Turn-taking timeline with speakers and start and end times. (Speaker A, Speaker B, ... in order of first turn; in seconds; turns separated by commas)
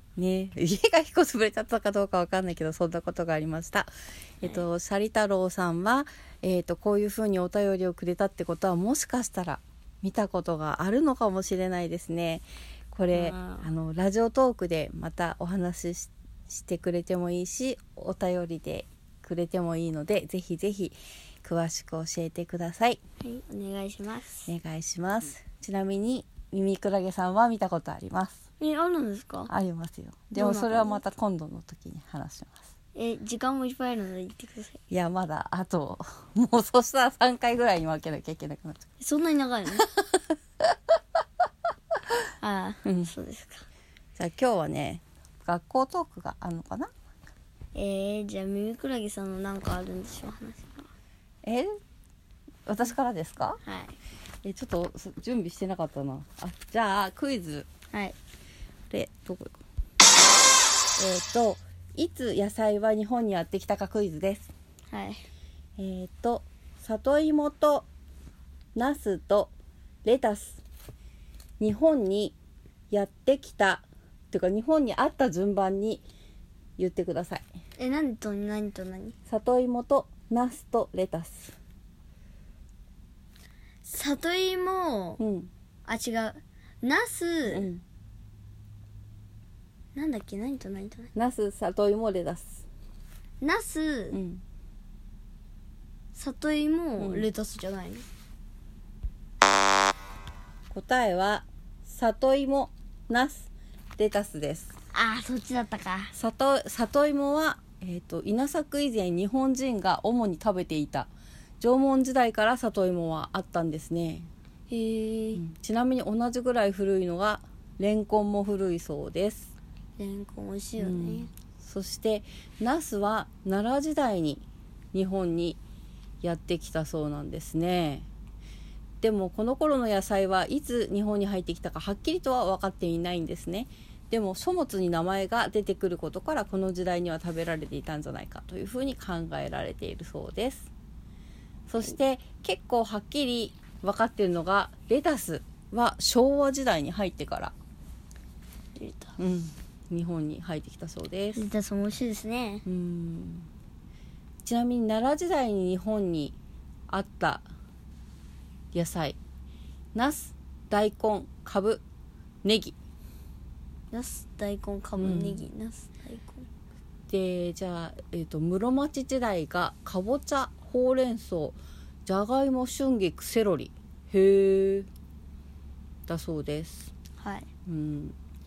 Speaker A: 0.1-23.0, Speaker B: 13.1-13.7, Speaker B: 23.2-24.5, Speaker A: 24.5-28.4, Speaker B: 28.6-29.5, Speaker A: 29.5-32.6, Speaker B: 30.4-31.0, Speaker B: 32.9-34.8, Speaker A: 34.9-38.8, Speaker B: 39.0-39.9, Speaker A: 39.9-40.7, Speaker B: 42.4-43.6, Speaker A: 42.8-43.1, Speaker A: 44.2-46.9, Speaker B: 47.7-50.9, Speaker A: 51.4-51.7, Speaker A: 52.7-53.6, Speaker B: 53.6-54.0, Speaker A: 54.4-57.7, Speaker A: 58.9-59.6, Speaker A: 61.0-64.5, Speaker B: 64.9-65.2, Speaker A: 65.8-67.8, Speaker A: 68.7-69.5, Speaker A: 70.0-70.6, Speaker A: 71.6-72.3, Speaker A: 72.9-76.0, Speaker A: 76.8-77.4, Speaker B: 77.8-79.2, Speaker A: 79.3-81.5, Speaker B: 83.8-85.2, Speaker A: 85.2-85.5, Speaker B: 85.8-87.7, Speaker A: 87.5-87.8, Speaker B: 89.9-91.1, Speaker A: 91.1-92.6, Speaker B: 93.4-94.2, Speaker A: 94.1-94.4, Speaker B: 96.1-98.0, Speaker A: 97.0-97.3, Speaker A: 100.7-104.7, Speaker B: 104.9-106.1, Speaker A: 106.1-114.3, Speaker B: 114.7-115.4, Speaker A: 115.3-119.5, Speaker B: 120.0-121.3, Speaker A: 120.8-125.6, Speaker A: 126.2-128.1, Speaker A: 129.0-140.7, Speaker A: 141.7-147.5, Speaker B: 148.8-149.2, Speaker A: 149.2-151.5, Speaker B: 151.3-152.6, Speaker A: 152.7-153.5, Speaker A: 154.4-156.3, Speaker A: 156.9-157.4, Speaker A: 158.7-159.2, Speaker A: 159.9-161.8, Speaker A: 162.4-162.8, Speaker B: 163.9-166.5, Speaker A: 165.0-165.4, Speaker A: 167.1-174.9, Speaker A: 176.1-176.9, Speaker B: 177.2-177.5, Speaker A: 177.7-178.1